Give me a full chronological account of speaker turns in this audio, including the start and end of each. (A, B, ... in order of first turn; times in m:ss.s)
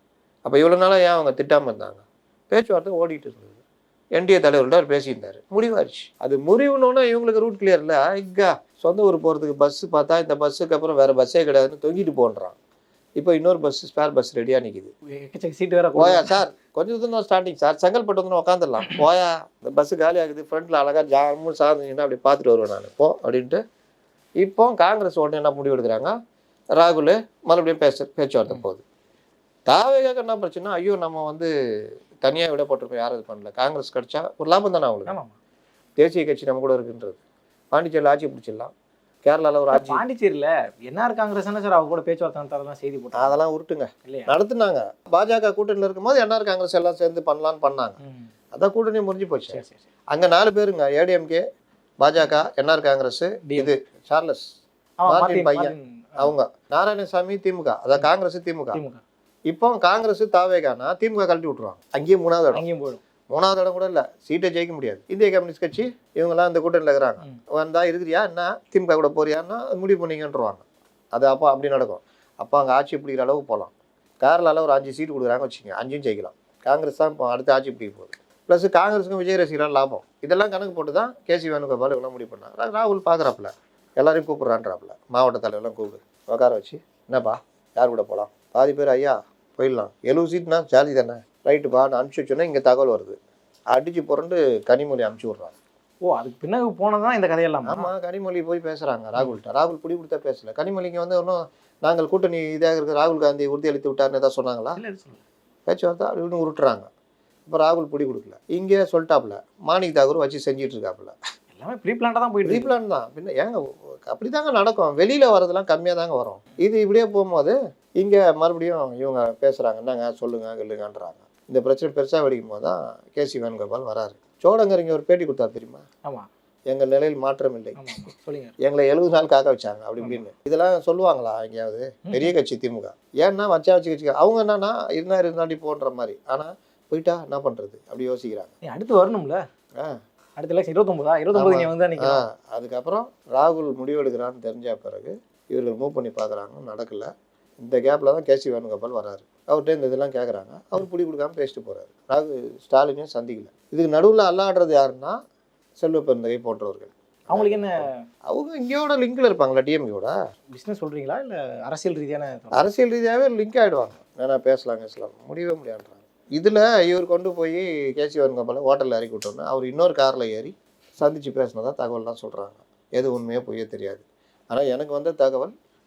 0:00.4-0:03.6 A
0:04.2-0:12.6 A
0:13.2-0:14.9 A
0:15.0-0:16.3 B
0:16.0-0:23.6 A
0:24.4-0:26.1 A
0:26.8-0:28.8 A
0:29.7-0:35.2 A
0:35.0-0:35.4 B
0:36.0-0:37.2 A
0:37.7-0:38.7 A
0:39.2-0:40.0 A
0:39.7-0:43.4 B
0:43.1-0:48.0 A
0:44.0-0:44.3 B
0:48.0-0:48.3 B
0:48.5-0:49.6 A
0:49.5-0:49.8 B
0:50.1-0:51.4 A
0:52.0-0:54.5 A
0:53.4-0:53.7 B
0:55.0-0:56.3 B
0:55.1-0:58.8 A
0:58.7-0:59.0 B
0:59.5-1:02.6 A
1:02.5-1:03.0 B
1:03.3-1:33.2 A
1:33.7-1:35.6 A
1:36.0-1:37.9 B
1:37.7-1:44.8 A
1:44.8-1:45.2 B
1:45.6-1:46.9 A
1:47.5-1:51.1 A
1:51.5-1:52.8 B
1:52.4-2:05.8 A
2:06.7-2:07.8 A
2:07.8-2:08.6 B
2:08.6-2:18.5 A
2:12.1-2:12.3 B
2:18.6-2:19.4 B
2:20.4-2:22.2 B
2:21.3-2:35.2 A
2:35.8-2:40.1 A
2:37.3-2:38.0 B
2:40.5-2:42.6 B
2:42.5-2:55.5 A